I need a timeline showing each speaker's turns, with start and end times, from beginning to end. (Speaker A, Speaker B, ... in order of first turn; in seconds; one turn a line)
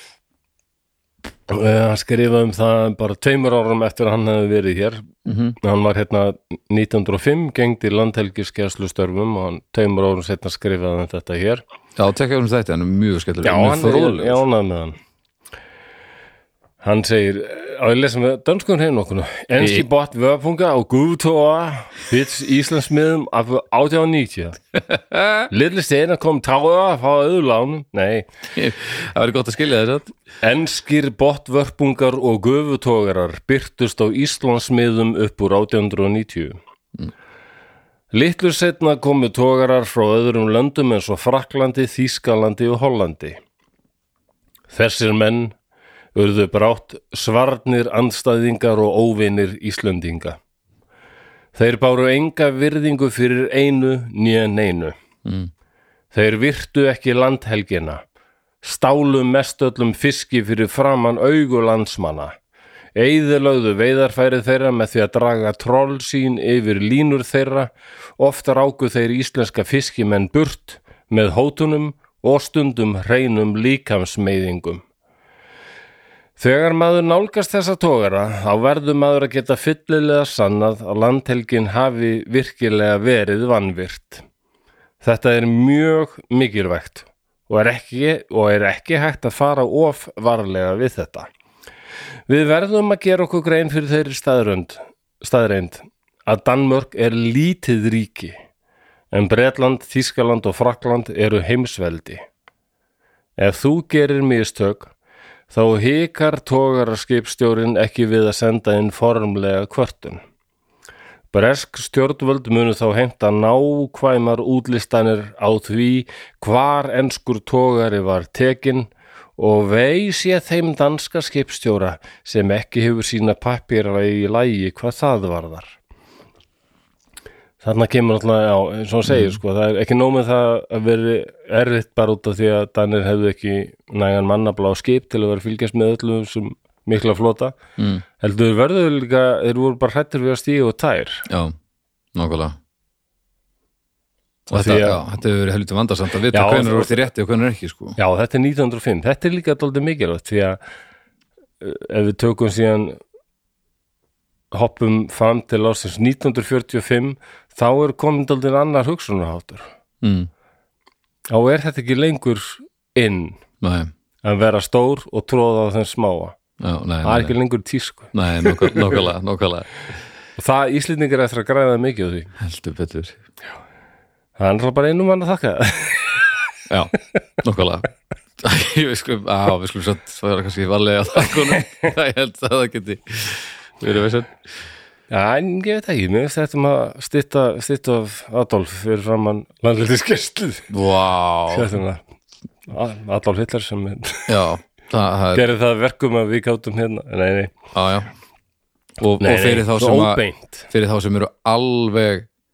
Speaker A: 1.5-11.6
Speaker B: 5.2-5.6
Speaker B: 11.9-14.4
Speaker A: 13.4-15.0
Speaker A: 16.8-24.6
Speaker B: 19.6-19.8
Speaker B: 24.8-25.5
Speaker A: 25.5-28.3
Speaker B: 28.5-30.1
Speaker A: 30.4-36.6
Speaker A: 38.1-43.4
Speaker A: 44.7-45.5
Speaker A: 46.1-50.4
Speaker A: 51.5-54.9
Speaker B: 55.2-55.5
Speaker A: 56.1-58.0
Speaker A: 58.6-62.3
Speaker A: 63.0-74.8
Speaker A: 76.4-84.2
Speaker A: 85.0-91.3
Speaker A: 92.3-98.4
Speaker A: 99.1-102.2
Speaker A: 103.4-104.9
Speaker A: 105.5-110.2
Speaker A: 111.3-125.8
Speaker A: 127.6-137.6
Speaker B: 129.1-129.4
Speaker B: 137.8-138.0
Speaker A: 138.2-141.3
Speaker B: 141.3-141.5
Speaker B: 142.1-142.6
Speaker B: 144.5-148.0
Speaker A: 144.5-145.0
Speaker A: 146.3-147.0
Speaker A: 148.0-150.6
Speaker A: 151.6-153.0
Speaker A: 154.5-159.7
Speaker B: 160.0-160.3
Speaker A: 161.3-163.4
Speaker B: 163.6-163.9
Speaker A: 164.2-166.4
Speaker B: 166.6-167.3
Speaker A: 167.0-169.0
Speaker B: 168.1-169.9
Speaker A: 170.4-172.3
Speaker B: 172.4-173.2
Speaker A: 174.4-176.4
Speaker B: 176.7-177.9
Speaker B: 178.4-184.3
Speaker A: 185.1-190.7
Speaker B: 190.7-191.7
Speaker A: 191.5-192.0
Speaker A: 192.7-194.4
Speaker B: 194.3-195.4
Speaker A: 195.3-197.5
Speaker B: 197.7-198.1
Speaker B: 199.0-202.3
Speaker A: 199.2-200.7